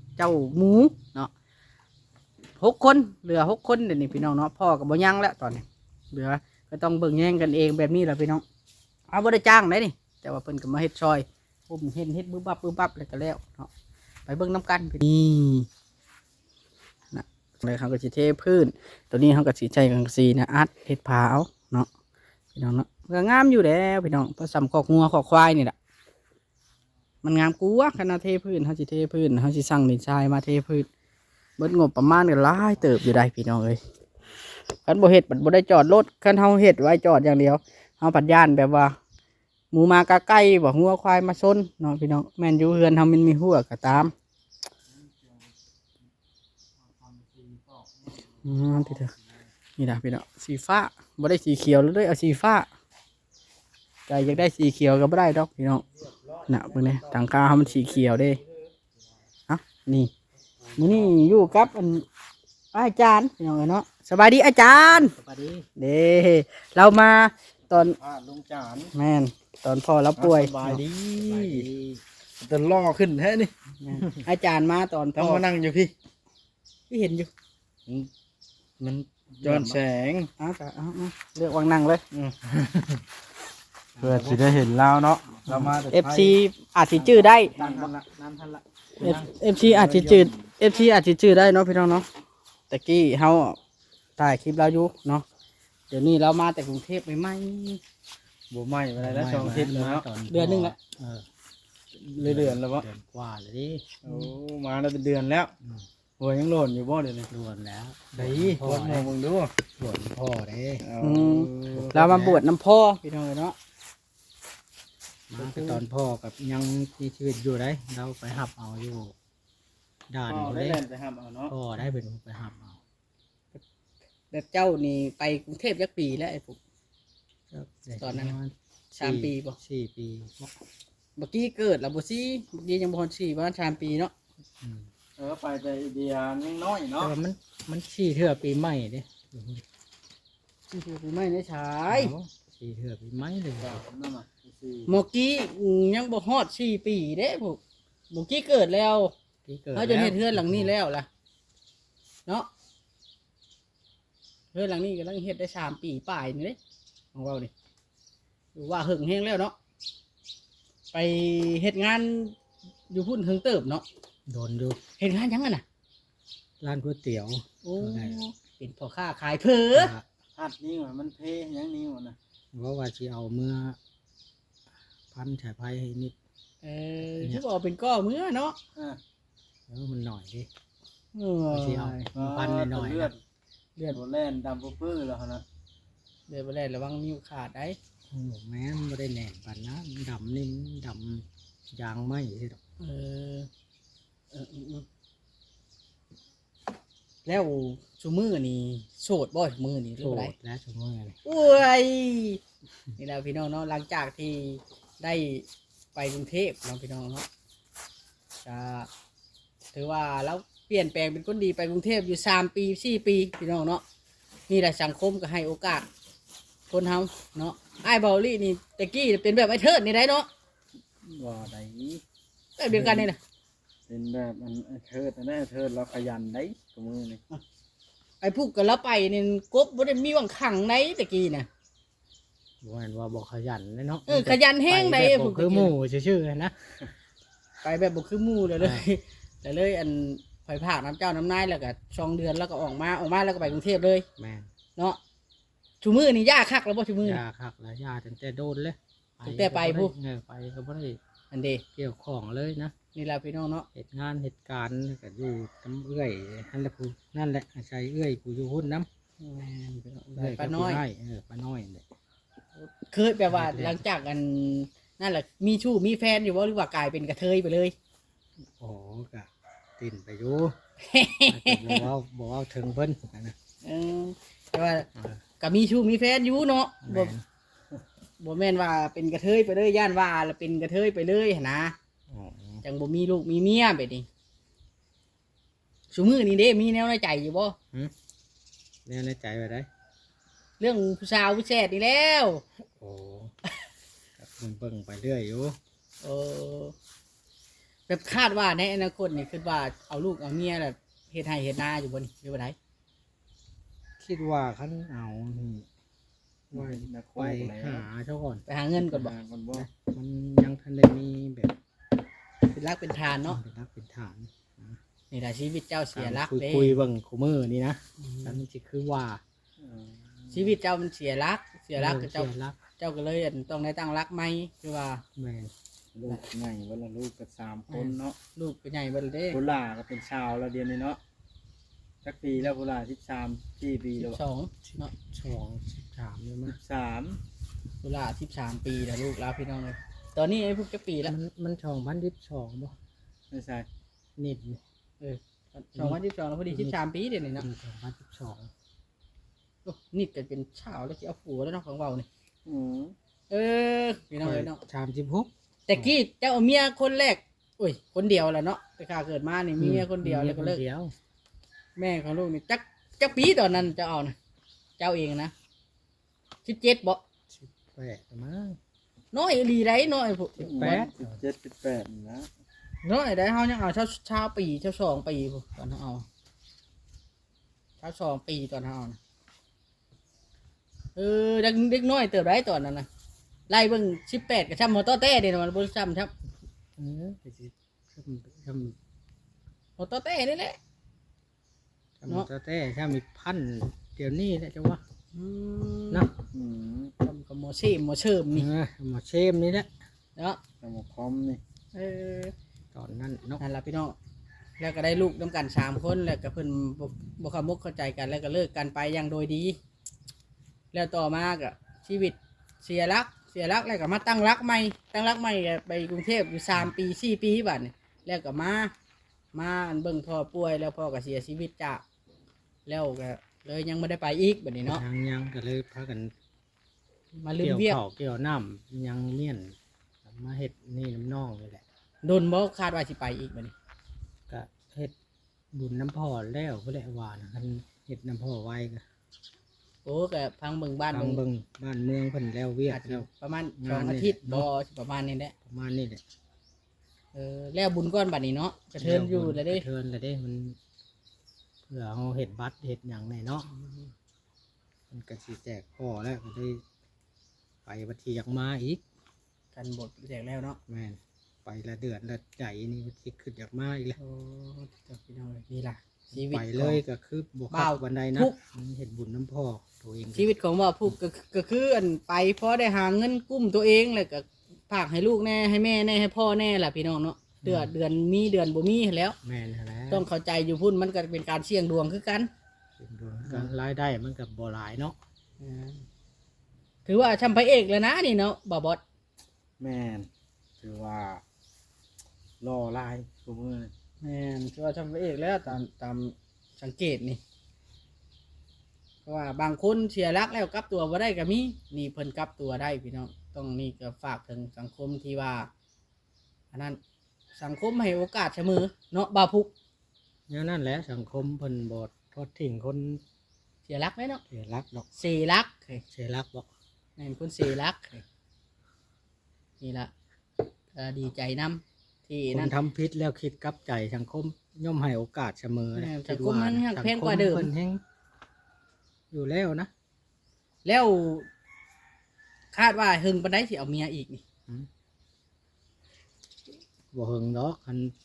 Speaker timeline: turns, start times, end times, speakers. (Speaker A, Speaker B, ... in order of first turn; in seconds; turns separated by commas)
Speaker A: 0.2-1.3, Speaker A: 2.6-8.4, Speaker A: 9.1-13.7, Speaker A: 14.2-15.7, Speaker A: 17.1-21.9, Speaker A: 22.6-25.8, Speaker A: 27.2-30.9, Speaker A: 31.6-33.8, Speaker A: 34.9-39.0, Speaker A: 39.7-44.1, Speaker B: 44.9-45.5, Speaker B: 46.8-49.2, Speaker A: 48.4-49.1, Speaker A: 49.8-52.7, Speaker A: 54.1-55.8, Speaker A: 56.5-58.4, Speaker A: 59.5-60.1, Speaker B: 60.7-61.1, Speaker A: 60.8-62.1, Speaker A: 62.7-65.1, Speaker C: 64.9-65.7, Speaker A: 65.8-68.0, Speaker B: 67.7-68.9, Speaker A: 68.9-70.8, Speaker B: 70.1-71.7, Speaker C: 71.2-72.0, Speaker B: 72.4-74.2, Speaker A: 73.8-75.4, Speaker B: 75.1-75.9, Speaker A: 76.9-77.3, Speaker B: 78.8-80.3, Speaker A: 79.4-79.8, Speaker A: 80.4-82.0, Speaker C: 82.5-83.0, Speaker C: 83.9-84.4, Speaker B: 84.0-86.4, Speaker C: 85.5-85.7, Speaker A: 85.9-87.6, Speaker B: 86.9-90.5, Speaker C: 87.6-87.9, Speaker A: 89.0-92.1, Speaker A: 92.7-93.6, Speaker A: 94.2-95.2, Speaker A: 95.9-97.8, Speaker B: 98.5-100.1, Speaker C: 99.0-101.3, Speaker A: 100.3-100.8, Speaker B: 101.9-102.9, Speaker C: 102.2-103.9, Speaker B: 104.0-105.5, Speaker B: 106.2-107.3, Speaker C: 107.3-109.1, Speaker B: 108.2-109.5, Speaker C: 109.8-110.8, Speaker B: 110.8-112.0, Speaker A: 111.0-113.5, Speaker C: 111.7-112.4, Speaker C: 115.3-119.2, Speaker A: 115.4-115.8, Speaker C: 120.1-120.8, Speaker B: 120.2-121.5, Speaker C: 121.5-122.8, Speaker A: 124.3-126.6, Speaker C: 127.5-130.5, Speaker A: 128.0-128.4, Speaker A: 128.9-129.6, Speaker A: 131.2-134.1, Speaker C: 134.6-134.9, Speaker B: 135.2-137.1, Speaker C: 137.0-139.6, Speaker A: 140.7-142.1, Speaker C: 141.9-143.8, Speaker B: 143.6-145.0, Speaker A: 144.9-149.1, Speaker C: 149.5-150.7, Speaker A: 149.7-151.1, Speaker A: 154.5-156.6, Speaker A: 157.1-157.5, Speaker A: 158.5-159.5, Speaker A: 160.9-162.3, Speaker A: 162.9-163.8, Speaker C: 164.3-164.8, Speaker A: 165.0-165.6, Speaker C: 166.6-168.2, Speaker A: 167.6-169.9, Speaker C: 169.7-170.1, Speaker B: 170.3-172.2, Speaker C: 172.5-173.8, Speaker C: 175.1-176.2, Speaker A: 176.6-178.6, Speaker B: 178.7-179.0, Speaker C: 179.7-180.5, Speaker A: 181.2-182.0, Speaker C: 181.5-183.1, Speaker B: 182.1-183.2, Speaker B: 183.9-185.4, Speaker A: 186.3-187.8, Speaker C: 188.1-192.6, Speaker A: 192.8-193.5, Speaker A: 194.3-194.8, Speaker A: 197.2-200.3, Speaker C: 200.0-201.2, Speaker A: 201.2-202.4, Speaker A: 203.0-207.3, Speaker A: 208.4-208.9, Speaker A: 209.7-213.8, Speaker A: 214.5-215.9, Speaker A: 216.7-220.3, Speaker B: 221.0-222.0, Speaker A: 222.6-223.2, Speaker B: 222.7-223.1, Speaker B: 223.9-227.2, Speaker A: 228.2-231.5, Speaker C: 232.6-236.5, Speaker A: 234.1-235.7, Speaker A: 237.6-244.1, Speaker C: 238.6-238.8, Speaker C: 244.2-244.5, Speaker A: 245.8-247.2, Speaker C: 247.0-251.0, Speaker A: 249.2-249.9, Speaker A: 251.3-251.6, Speaker C: 251.8-252.7, Speaker A: 252.9-253.7, Speaker C: 253.7-258.9, Speaker A: 259.2-260.8, Speaker C: 260.1-261.9, Speaker A: 262.6-267.8, Speaker C: 263.3-263.8, Speaker C: 268.4-270.6, Speaker A: 270.8-271.9, Speaker C: 271.3-273.4, Speaker A: 273.6-274.9, Speaker A: 275.4-277.1, Speaker C: 276.8-277.2, Speaker A: 278.2-281.8, Speaker C: 282.1-282.6, Speaker A: 282.6-284.1, Speaker A: 285.9-287.6, Speaker C: 288.9-289.7, Speaker A: 290.6-292.4, Speaker C: 292.8-293.3, Speaker C: 294.2-295.6, Speaker A: 296.0-296.8, Speaker A: 297.9-302.6, Speaker C: 304.0-305.7, Speaker B: 306.5-307.9, Speaker C: 306.5-308.4, Speaker A: 308.5-309.6, Speaker B: 308.8-309.7, Speaker C: 309.8-311.6, Speaker A: 312.5-313.4, Speaker C: 313.1-314.8, Speaker A: 315.1-316.8, Speaker C: 315.9-319.2, Speaker A: 318.0-318.4, Speaker B: 319.6-320.5, Speaker A: 320.3-325.0, Speaker C: 321.8-322.6, Speaker C: 325.1-325.5, Speaker B: 325.9-328.1, Speaker A: 327.7-329.4, Speaker B: 329.3-331.0, Speaker B: 332.0-334.2, Speaker A: 334.0-334.9, Speaker C: 334.7-336.6, Speaker B: 336.5-337.2, Speaker A: 337.8-341.1, Speaker C: 341.0-342.8, Speaker B: 343.3-343.7, Speaker C: 344.2-344.6, Speaker A: 345.0-347.5, Speaker C: 345.8-346.8, Speaker C: 347.4-348.5, Speaker A: 349.6-352.1, Speaker B: 352.5-352.9, Speaker A: 353.3-354.6, Speaker C: 354.2-355.9, Speaker A: 355.7-360.6, Speaker C: 359.6-360.9, Speaker A: 361.8-364.1, Speaker A: 364.8-365.3, Speaker A: 366.4-367.0, Speaker C: 367.3-368.6, Speaker A: 369.1-370.9, Speaker B: 370.4-372.3, Speaker C: 370.5-371.1, Speaker A: 372.8-376.1, Speaker A: 377.8-379.0, Speaker A: 381.0-382.9, Speaker A: 383.5-386.1, Speaker C: 386.8-388.8, Speaker A: 389.8-390.6, Speaker C: 392.0-394.8, Speaker A: 395.1-396.1, Speaker B: 396.3-396.9, Speaker A: 397.0-398.5, Speaker C: 398.3-399.7, Speaker B: 400.6-401.4, Speaker A: 401.7-402.3, Speaker C: 402.7-403.4, Speaker A: 403.4-403.9, Speaker A: 404.6-409.6, Speaker A: 410.7-418.7, Speaker A: 419.3-421.8, Speaker A: 422.6-424.8, Speaker C: 424.6-426.1, Speaker A: 427.1-427.8, Speaker C: 427.4-431.6, Speaker A: 432.0-433.5, Speaker C: 434.3-434.9, Speaker C: 435.5-438.8, Speaker A: 439.9-441.2, Speaker C: 440.9-443.1, Speaker A: 442.7-445.3, Speaker C: 443.6-444.5, Speaker C: 445.5-446.0, Speaker A: 447.1-449.6, Speaker C: 448.8-450.6, Speaker C: 451.7-453.5, Speaker A: 453.5-453.9, Speaker C: 454.9-456.6, Speaker C: 457.6-458.8, Speaker A: 459.6-460.6, Speaker C: 460.7-464.0, Speaker A: 464.0-466.8, Speaker C: 466.1-470.3, Speaker A: 467.5-468.4, Speaker A: 470.1-479.1, Speaker C: 477.4-477.7, Speaker C: 479.2-480.1, Speaker A: 479.9-482.3, Speaker C: 482.8-485.0, Speaker A: 485.4-485.9, Speaker A: 486.9-488.8, Speaker B: 489.6-490.1, Speaker B: 490.6-491.2, Speaker B: 492.4-493.7, Speaker A: 494.0-497.2, Speaker A: 499.1-505.5, Speaker A: 506.5-506.8, Speaker A: 507.4-509.5, Speaker C: 510.3-513.0, Speaker A: 513.7-514.2, Speaker C: 514.3-514.9, Speaker A: 515.0-515.8, Speaker C: 515.9-516.5, Speaker A: 517.0-518.0, Speaker A: 519.6-519.9, Speaker A: 520.8-522.5, Speaker C: 522.3-527.8, Speaker A: 525.8-527.5, Speaker C: 529.1-529.7, Speaker A: 530.6-531.3, Speaker A: 532.5-534.2, Speaker C: 536.9-538.0